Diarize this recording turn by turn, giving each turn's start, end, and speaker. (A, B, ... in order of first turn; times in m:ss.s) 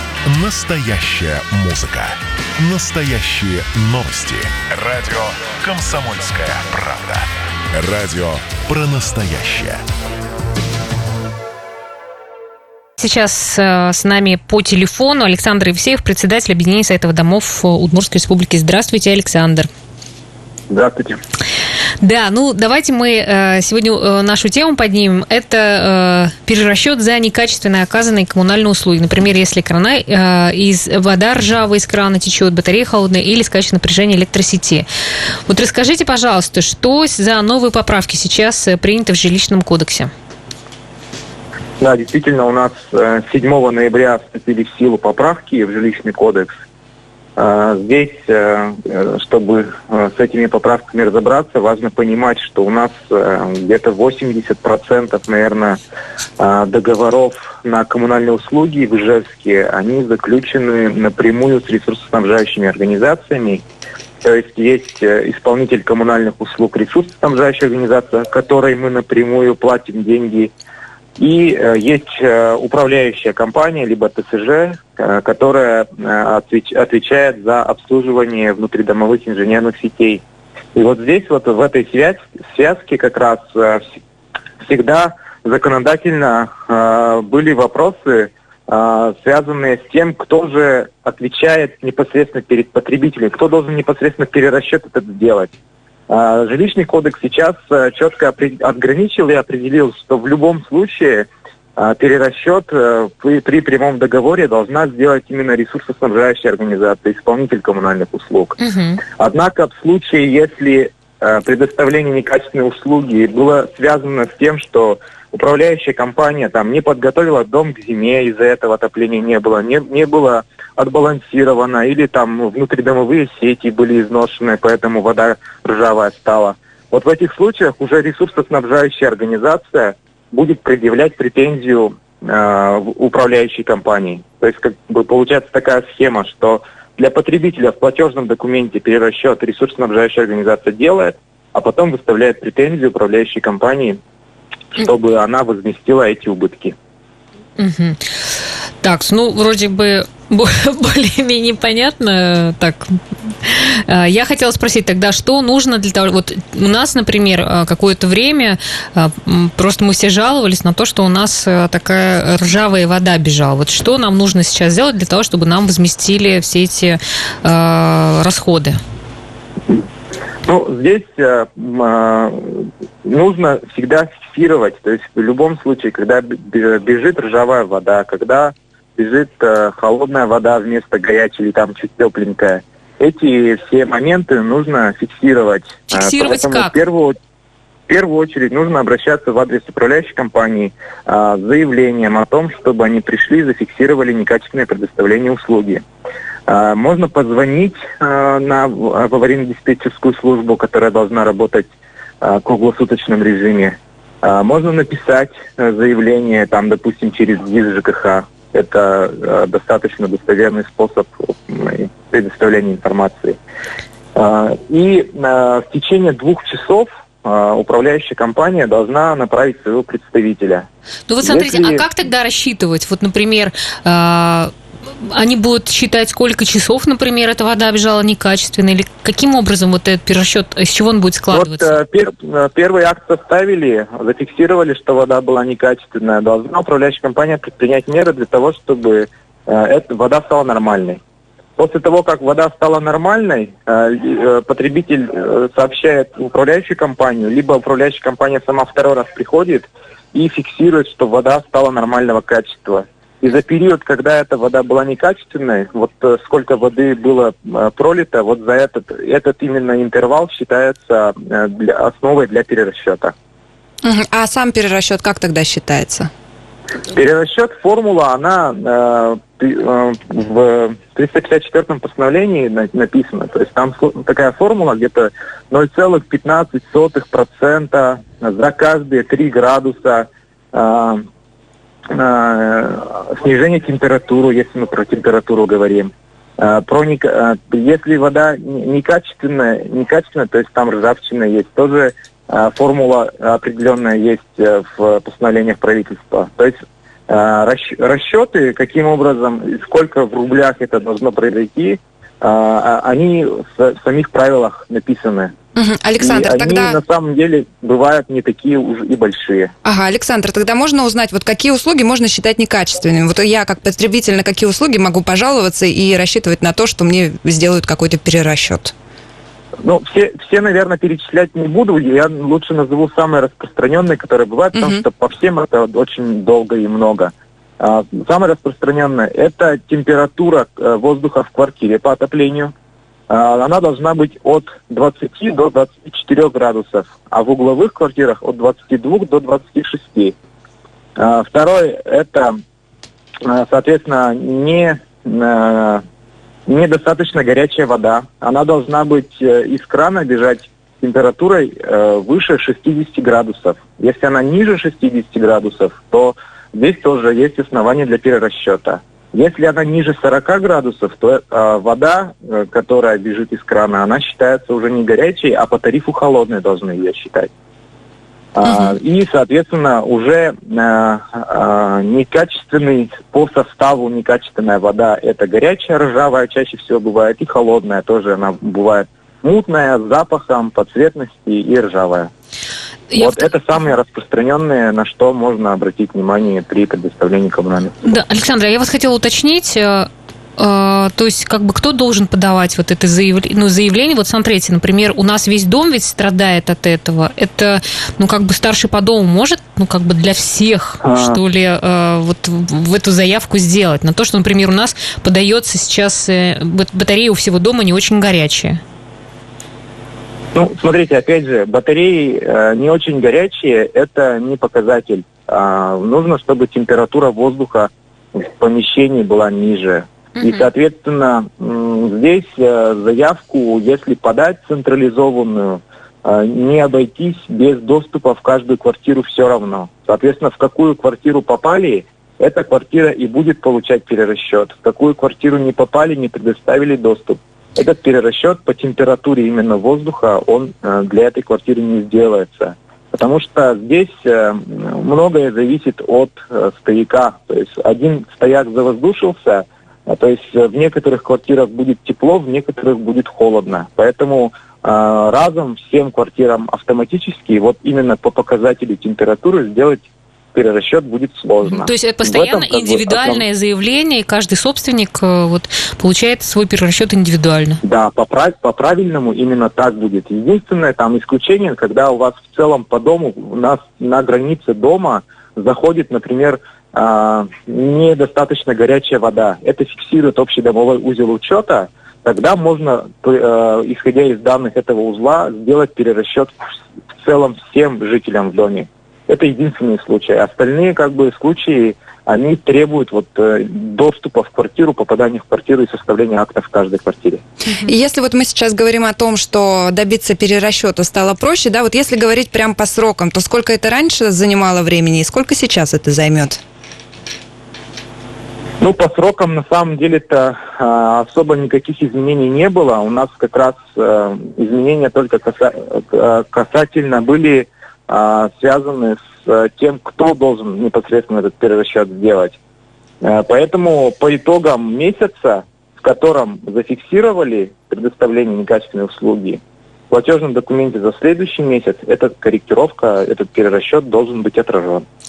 0:00.2-0:09.8 A
0:13.0-0:19.7 B
0:20.7-0:21.2 C
0:22.0-0:34.9 B
0:35.5-0:40.1 B
0:41.8-0:46.5 C
0:47.4-0:55.8 C
0:56.4-1:03.6 C
1:04.2-1:10.5 C
1:11.2-1:20.2 C
1:20.7-1:24.0 C
1:24.6-1:35.5 C
1:36.1-2:24.0 C
1:48.6-1:49.0 B
2:24.7-2:26.8 C
2:27.6-2:28.0 B
2:28.8-2:48.8 B
2:50.4-3:07.1 C
3:05.9-3:06.7 B
3:07.9-3:15.8 C
3:16.5-3:21.7 C
3:22.2-3:33.4 C
3:34.1-3:40.7 C
3:41.1-3:51.8 B
3:41.2-3:41.8 C
3:51.3-4:01.0 C
4:01.6-4:23.1 C
4:23.8-4:26.1 D
4:26.9-4:41.0 C
4:41.9-4:56.6 C
4:57.1-5:05.3 C
5:05.6-5:06.8 D
5:06.0-5:09.5 C
5:09.6-5:18.7 D
5:19.6-5:32.5 C
5:24.5-5:24.8 D
5:33.1-5:40.2 C
5:41.0-5:42.4 C
5:43.2-5:45.8 C
5:46.5-6:07.3 C
6:08.3-6:22.1 C
6:22.9-6:23.2 B
6:23.0-6:27.8 C
6:27.8-6:48.6 B
6:40.8-6:41.2 C
6:50.3-7:43.2 C
7:00.2-7:00.5 B
7:41.4-7:47.6 B
7:47.6-8:17.2 C
8:17.6-8:26.4 D
8:28.6-8:42.4 C
8:43.0-8:54.8 C